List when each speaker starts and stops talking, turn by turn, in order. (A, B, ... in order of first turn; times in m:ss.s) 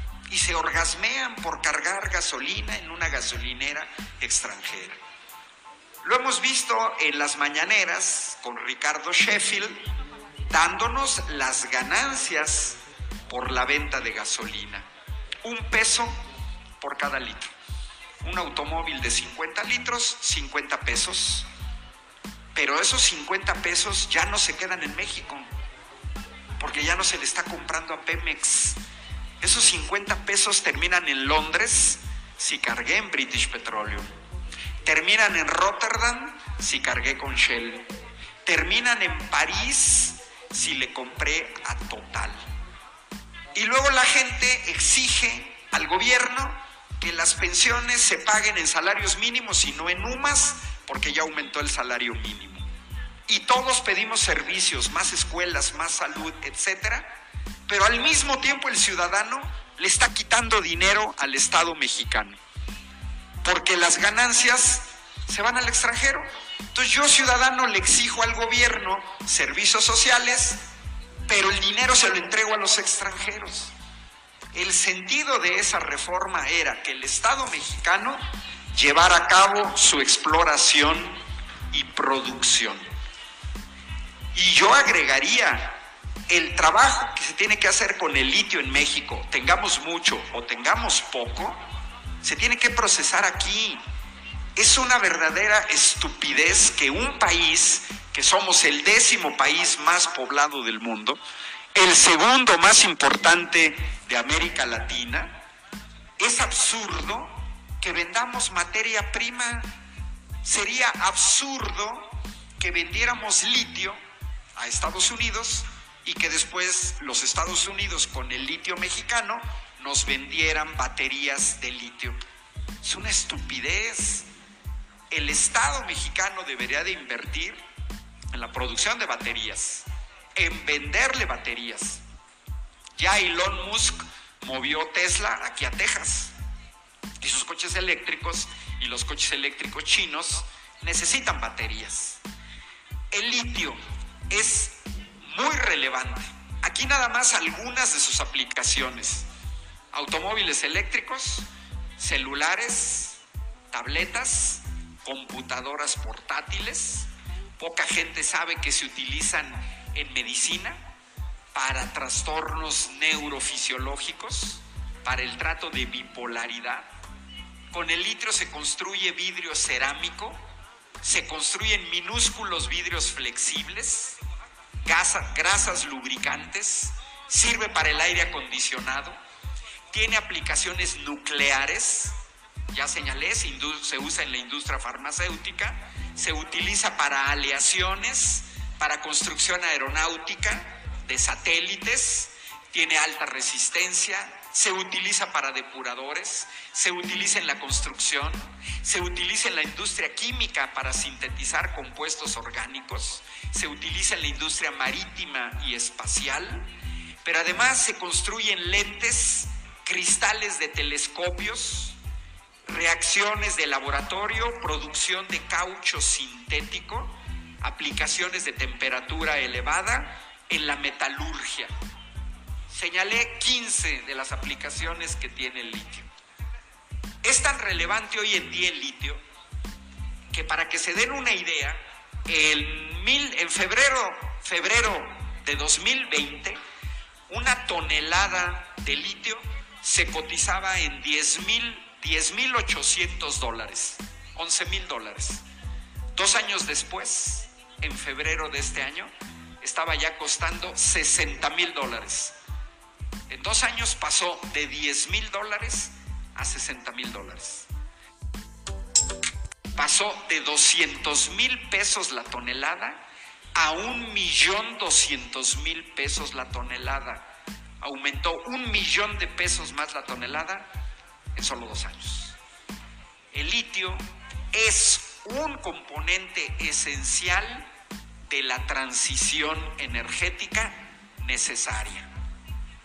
0:00.3-0:05.0 A
0:06.0-0:09.8 A
0:10.5-0:14.9 A
0:15.4-0:16.2 A
0:16.8-0:17.5 A
0:18.2-0:21.5 A
0:22.5-0:25.5 A
0:26.6-0:28.8 A
0:29.4-0:34.2 A
0:34.8-0:37.9 A
0:38.4-0:42.4 A
0:43.5-0:52.7 A
0:53.3-0:57.1 A
0:57.7-1:02.4 A
1:03.4-1:10.6 A
1:11.3-1:13.7 A
1:14.5-1:22.8 A
1:24.3-1:31.6 A
1:32.2-1:33.8 A
1:34.6-1:41.2 A
1:41.7-1:45.4 A
1:46.2-1:49.7 A
1:50.4-1:54.0 A
1:54.6-2:02.2 A
2:02.8-2:04.3 A
2:05.1-2:07.6 A
2:08.3-2:12.0 A
2:13.0-2:16.3 A
2:17.2-2:22.2 A
2:23.1-2:29.3 A
2:29.9-2:33.2 A
2:33.7-2:40.9 A
2:41.5-2:46.9 A
2:47.7-2:50.4 A
2:51.0-2:54.2 A
2:54.8-2:59.2 A
2:59.9-3:02.2 A
3:02.7-3:26.7 A
3:27.2-3:32.0 A
3:32.7-3:41.7 A
3:42.7-3:46.1 A
3:47.2-3:49.2 A
3:50.3-3:56.6 A
3:57.3-4:05.4 A
4:06.1-4:12.4 A
4:13.3-4:17.7 A
4:19.8-4:27.2 A
4:27.8-4:30.7 A
4:31.3-4:32.4 A
4:33.3-4:37.7 A
4:38.3-4:42.1 A